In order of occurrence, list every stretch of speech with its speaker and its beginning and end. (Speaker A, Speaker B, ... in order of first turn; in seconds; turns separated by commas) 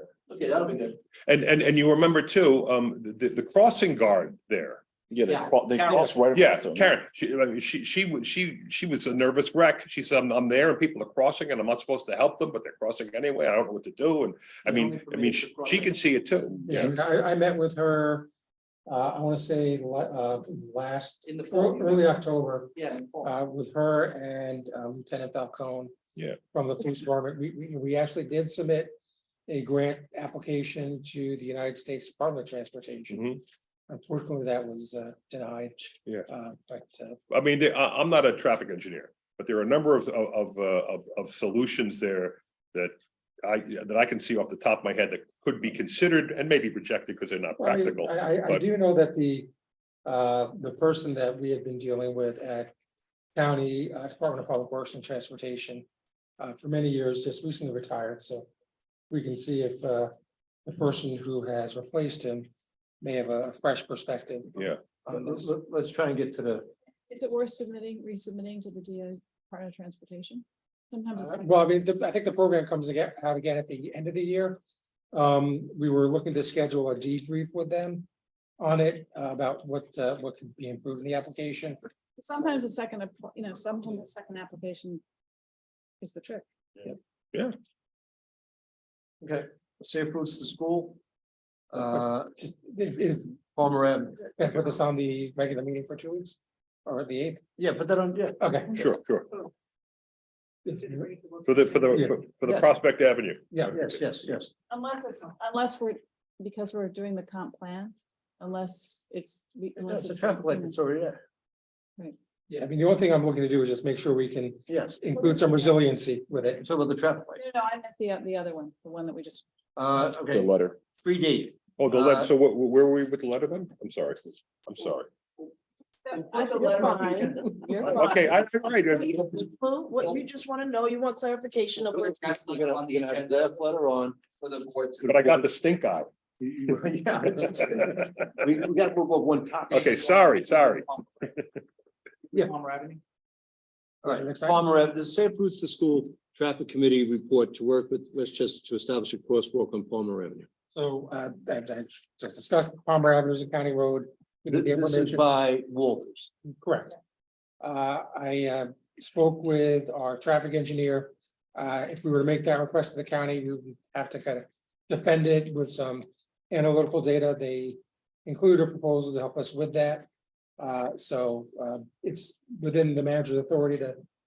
Speaker A: 0.3-1.0, Speaker B: 1.3-4.8, Speaker C: 5.1-7.0, Speaker A: 5.2-6.2, Speaker B: 6.3-16.7, Speaker A: 14.7-16.0, Speaker D: 16.7-18.3, Speaker D: 18.9-25.9, Speaker A: 21.2-22.2, Speaker A: 22.7-23.3, Speaker D: 26.5-28.9, Speaker D: 29.5-33.4, Speaker B: 33.1-33.4, Speaker D: 33.9-35.8, Speaker D: 36.3-37.2, Speaker B: 37.3-48.6, Speaker D: 47.6-49.5, Speaker D: 50.0-52.7, Speaker D: 53.4-55.9, Speaker D: 56.4-58.5, Speaker D: 59.1-60.1, Speaker D: 60.6-62.5, Speaker D: 63.0-65.5, Speaker E: 65.1-66.7, Speaker F: 67.1-71.5, Speaker D: 71.2-74.6, Speaker D: 75.1-78.1, Speaker D: 78.6-81.8, Speaker F: 82.2-85.0, Speaker F: 86.0-86.4, Speaker E: 89.2-91.0, Speaker E: 91.7-92.3, Speaker D: 91.9-93.4, Speaker E: 93.6-94.3, Speaker D: 94.4-97.4, Speaker E: 97.6-98.4, Speaker D: 98.4-98.8, Speaker B: 98.7-99.3, Speaker D: 100.7-101.1, Speaker B: 101.4-103.8, Speaker E: 103.7-104.5, Speaker F: 104.7-110.8, Speaker E: 109.8-111.2, Speaker D: 112.5-116.7, Speaker E: 114.7-115.0, Speaker E: 116.6-117.4, Speaker F: 117.4-119.5, Speaker E: 119.8-122.3, Speaker C: 120.3-120.8, Speaker B: 121.8-125.1, Speaker A: 126.2-127.7, Speaker F: 126.2-127.3, Speaker G: 126.3-128.4, Speaker B: 127.8-129.4, Speaker G: 128.9-132.1, Speaker E: 131.9-134.2, Speaker A: 132.0-133.6, Speaker A: 134.3-135.4, Speaker B: 135.0-136.1, Speaker E: 136.4-139.9, Speaker A: 139.7-141.3, Speaker B: 139.7-141.3, Speaker A: 142.3-143.0, Speaker E: 144.0-150.5, Speaker D: 144.1-144.6, Speaker D: 150.7-155.3, Speaker E: 154.5-156.3, Speaker D: 156.4-157.0, Speaker D: 157.6-174.0